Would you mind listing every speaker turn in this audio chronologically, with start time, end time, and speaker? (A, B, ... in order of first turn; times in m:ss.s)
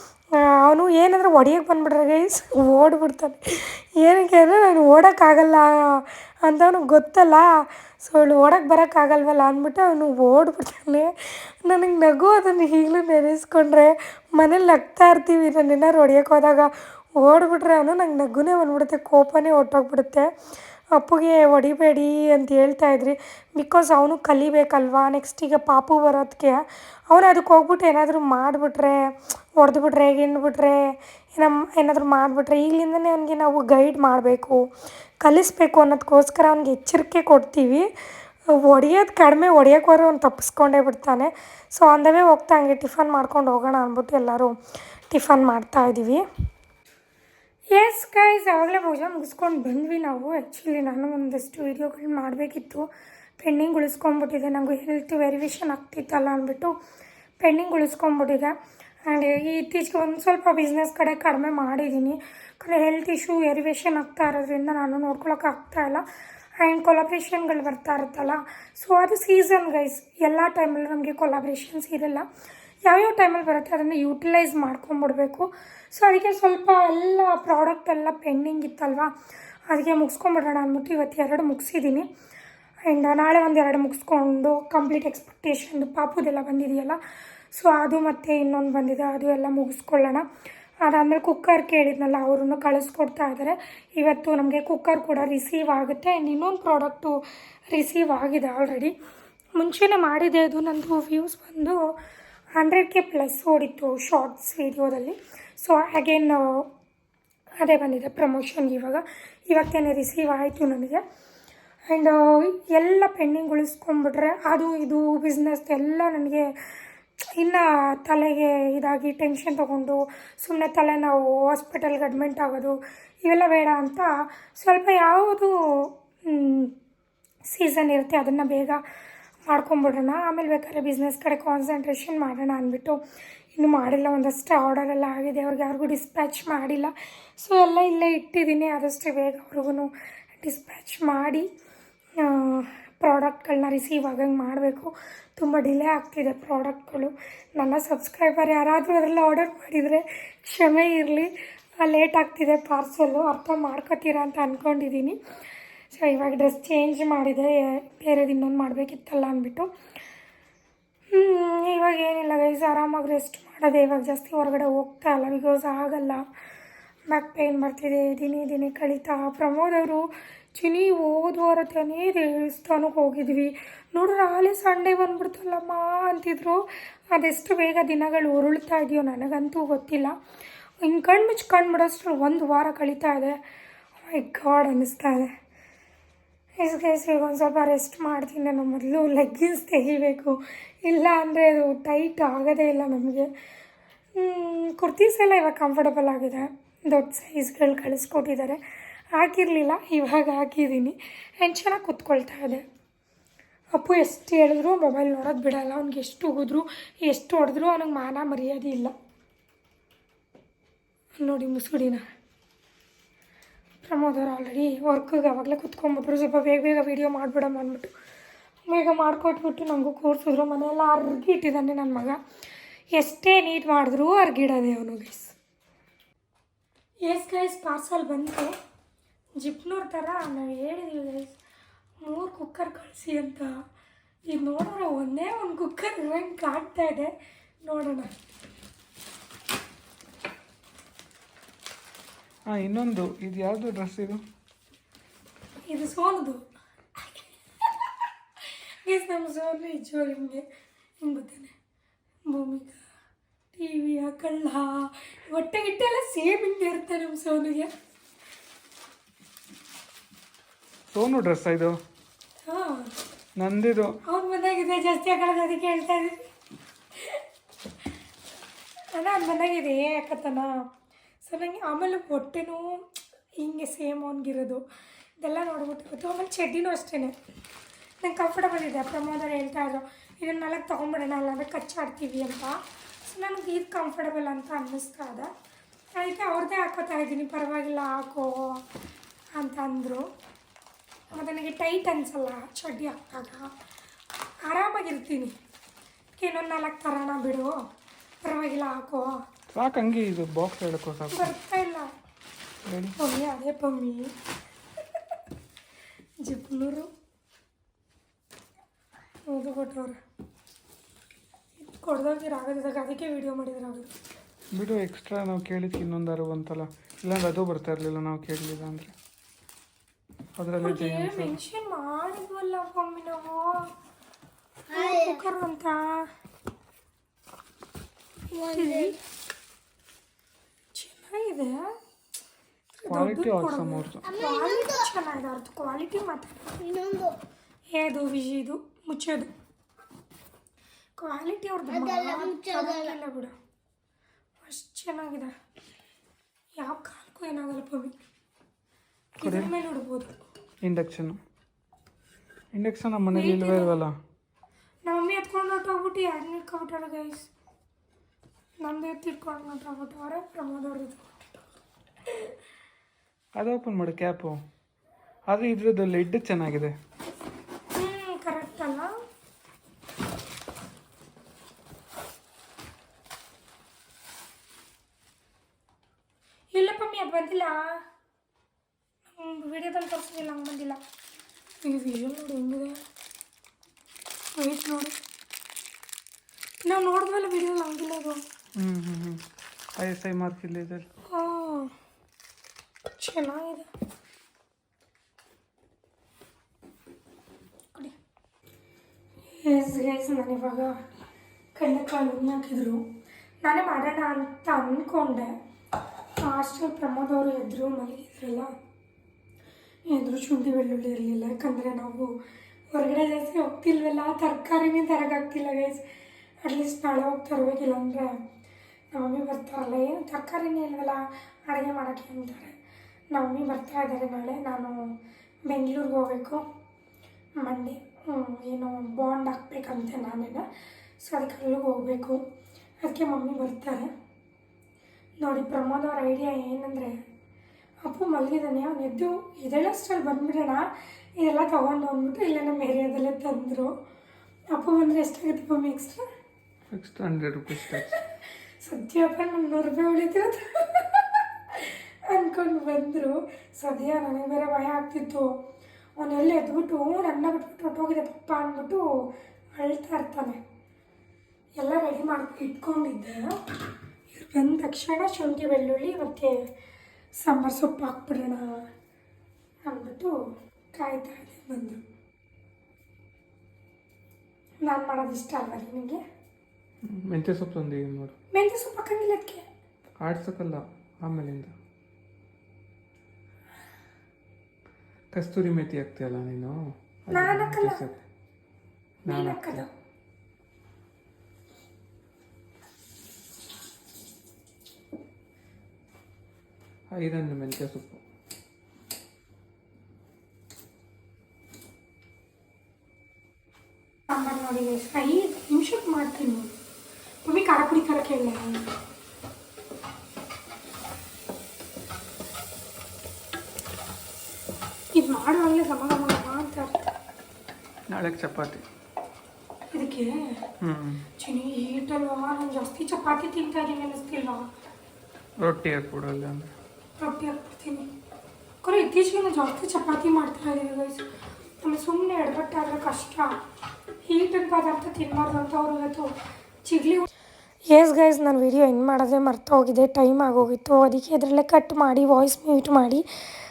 0:00.5-0:07.5 A
0:08.0-0:11.1 A
0:11.6-0:20.3 A
0:21.0-0:34.6 A
0:35.2-0:37.9 A
0:38.6-0:44.5 A
0:45.1-0:46.2 A
0:47.7-0:52.8 A
0:53.4-0:56.7 A
0:57.4-0:58.5 A
0:59.1-1:06.0 A
1:06.6-1:12.2 A
1:12.8-1:19.1 A
1:19.7-1:22.1 A
1:22.8-1:27.0 A
1:27.5-1:30.2 A
1:30.8-1:37.2 A
1:37.7-1:38.9 A
1:39.6-1:41.9 A
1:42.6-1:46.7 A
1:47.6-1:51.0 A
1:51.9-1:56.6 A
1:57.3-2:06.7 A
2:07.5-2:08.8 A
2:09.5-2:13.0 A
2:13.6-2:19.9 A
2:20.4-2:21.5 A
2:22.2-2:35.2 A
2:35.9-2:39.7 A
2:41.1-2:46.2 A
2:47.1-3:00.1 A
3:00.8-3:03.4 A
3:04.1-3:05.3 A
3:06.6-3:13.3 A
3:14.2-3:18.6 A
3:19.1-3:22.6 A
3:23.7-3:28.9 A
3:31.2-3:32.0 A
3:33.8-3:37.9 A
3:38.7-3:42.2 A
3:42.9-3:45.3 A
3:47.0-3:48.5 A
3:49.4-3:51.4 A
3:52.0-3:53.5 A
3:54.3-3:58.1 A
4:02.5-4:04.2 B
4:05.7-4:06.4 A
4:07.0-4:07.7 A
4:08.4-4:10.4 A
4:11.0-4:11.5 A
4:12.3-4:12.8 A
4:13.5-4:17.7 A
4:20.9-4:21.8 B
4:22.4-4:22.9 A
4:23.4-4:23.9 B
4:24.0-4:26.3 A
4:28.9-4:30.5 A
4:31.2-4:32.8 A
4:33.4-4:34.6 A
4:35.2-4:37.1 A
4:38.0-4:45.3 A
4:45.9-4:48.6 A
4:49.4-4:50.0 A
4:51.1-4:53.5 A
4:54.4-4:55.3 A
4:56.2-4:57.7 A
4:58.2-4:59.2 A
4:59.5-5:01.3 B
5:01.1-5:01.9 A
5:02.7-5:03.0 B
5:03.0-5:04.1 A
5:06.2-5:06.9 A
5:09.3-5:10.0 A
5:11.6-5:13.9 A
5:14.5-5:18.9 B
5:20.4-5:21.4 B
5:20.6-5:23.7 A
5:24.7-5:26.1 A
5:24.7-5:25.2 C
5:28.3-5:29.0 A
5:28.4-5:29.0 C
5:30.7-5:31.8 A
5:32.8-5:36.5 A
5:32.9-5:34.1 B
5:34.1-5:34.9 C
5:36.6-5:37.2 C
5:37.7-5:39.3 A
5:41.0-5:43.3 A
5:41.7-5:42.9 C
5:44.4-5:45.3 A
5:46.6-5:47.9 A
5:49.2-5:50.1 A
5:49.2-5:49.5 B
5:50.6-5:51.2 B
5:52.5-5:53.9 B
5:53.1-5:53.7 A
5:54.9-5:57.3 A
5:58.6-6:01.1 A
6:03.4-6:04.4 B
6:05.3-6:06.7 B
6:07.7-6:08.9 A
6:16.5-6:17.8 A
6:19.1-6:20.8 A
6:21.6-6:22.8 A
6:24.4-6:25.0 A
6:26.6-6:28.2 A
6:28.6-6:29.2 B
6:29.8-6:30.9 B
6:31.1-6:31.7 A
6:32.9-6:33.7 A
6:39.3-6:40.7 A
6:41.5-6:42.8 A
6:43.4-6:45.3 A
6:46.2-6:48.5 A
6:49.9-6:52.1 A
6:52.7-6:55.8 A
6:56.4-6:58.2 A
6:58.9-7:02.6 A
7:03.1-7:04.9 A
7:05.5-7:06.4 A
7:07.4-7:10.4 A
7:11.0-7:12.2 A
7:12.8-7:13.9 A
7:15.2-7:17.0 A
7:17.8-7:20.6 A
7:21.2-7:23.7 A
7:24.5-7:26.0 A
7:26.7-7:28.0 B
7:27.6-7:28.0 A
7:28.6-7:35.3 A
7:36.0-7:38.8 A
7:39.6-7:40.4 A
7:41.6-7:43.3 A
7:44.1-7:46.4 A
7:47.2-7:48.6 A
7:49.6-7:50.1 A
7:50.7-7:51.8 A
7:54.6-7:56.0 A
7:56.8-7:58.1 B
7:58.3-7:59.4 A
8:00.0-8:01.5 B
8:05.1-8:08.0 B
8:07.1-8:07.8 A
8:09.0-8:09.6 B
8:09.1-8:09.7 A
8:16.9-8:18.0 B
8:24.1-8:26.5 A
8:27.2-8:28.7 A
8:34.9-8:36.8 A
8:37.9-8:38.6 B
8:39.7-8:40.4 A
8:40.6-8:41.1 B
8:41.2-8:44.4 A
8:45.4-8:46.5 B
8:47.0-8:47.9 A
8:48.6-8:53.4 A
8:54.0-8:56.1 A
8:56.6-8:57.1 A
8:57.7-9:03.0 A